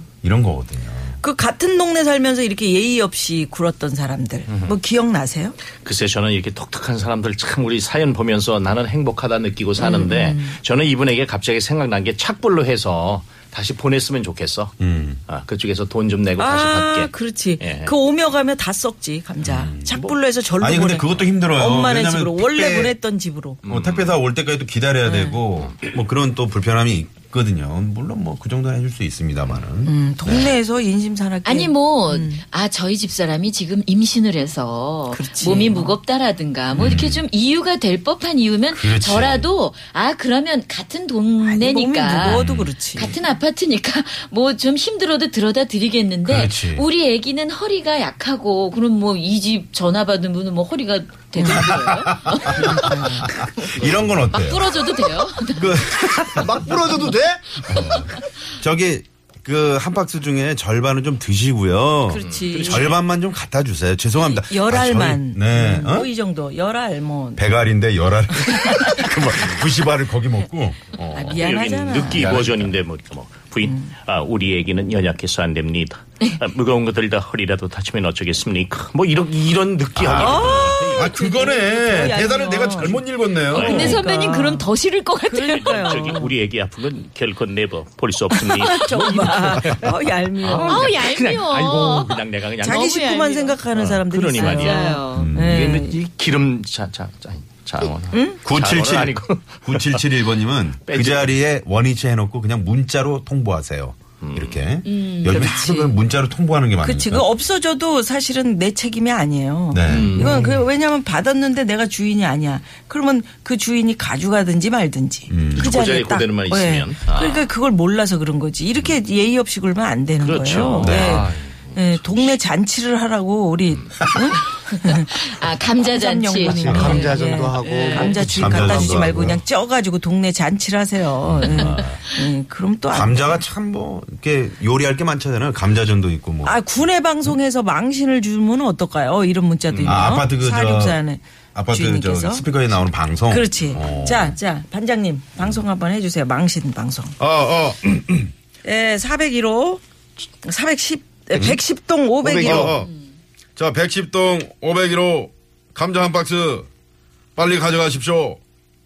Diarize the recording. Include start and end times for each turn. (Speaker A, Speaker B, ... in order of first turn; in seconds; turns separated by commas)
Speaker A: 0.2-1.2, Speaker B: 1.2-5.5, Speaker C: 5.8-14.8, Speaker B: 9.8-10.6, Speaker A: 14.8-15.2, Speaker C: 15.3-17.9, Speaker B: 16.4-23.6, Speaker A: 19.4-20.1, Speaker A: 20.6-22.9, Speaker C: 23.7-24.1, Speaker A: 23.7-30.5, Speaker B: 25.1-25.4, Speaker B: 29.9-32.4, Speaker D: 31.4-42.4, Speaker B: 35.1-35.9, Speaker A: 36.8-37.2, Speaker A: 38.7-39.5, Speaker B: 41.4-43.2, Speaker A: 42.2-42.7, Speaker D: 43.0-53.8, Speaker A: 46.2-46.9, Speaker B: 51.4-51.7, Speaker A: 51.4-56.7, Speaker B: 52.5-53.3, Speaker D: 54.3-56.2, Speaker E: 56.2-57.6, Speaker A: 57.6-66.1, Speaker B: 62.1-63.0, Speaker C: 62.2-63.0, Speaker B: 64.2-67.5, Speaker A: 67.4-71.4, Speaker B: 71.1-72.3, Speaker C: 71.3-81.1, Speaker A: 72.1-72.7, Speaker A: 80.0-83.9, Speaker B: 80.1-84.7, Speaker C: 83.5-83.9, Speaker D: 83.5-86.2, Speaker B: 85.3-86.3, Speaker C: 85.5-93.0, Speaker B: 88.5-90.9, Speaker D: 90.7-93.6, Speaker B: 92.6-96.0, Speaker C: 93.8-100.0, Speaker D: 94.4-95.3, Speaker A: 95.1-95.7, Speaker B: 98.1-98.4, Speaker A: 98.5-107.3, Speaker C: 100.9-101.4, Speaker C: 104.2-104.6, Speaker D: 104.9-105.9, Speaker B: 105.3-105.9, Speaker B: 106.8-125.2, Speaker A: 109.7-110.5, Speaker C: 109.9-110.5, Speaker A: 115.3-115.8, Speaker C: 115.6-117.5, Speaker C: 120.2-122.3, Speaker A: 120.8-121.3, Speaker D: 124.8-128.2, Speaker B: 125.8-133.4, Speaker A: 126.5-127.1, Speaker E: 126.6-129.2, Speaker A: 128.2-129.4, Speaker A: 131.4-132.0, Speaker A: 132.9-136.6, Speaker B: 136.4-142.5, Speaker A: 139.8-141.0, Speaker A: 141.6-144.4, Speaker B: 143.3-147.2, Speaker A: 147.2-148.3, Speaker B: 148.7-149.8, Speaker B: 150.4-152.7, Speaker A: 151.3-151.6, Speaker E: 152.2-152.8, Speaker A: 152.4-152.9, Speaker A: 153.6-156.7, Speaker A: 157.4-158.4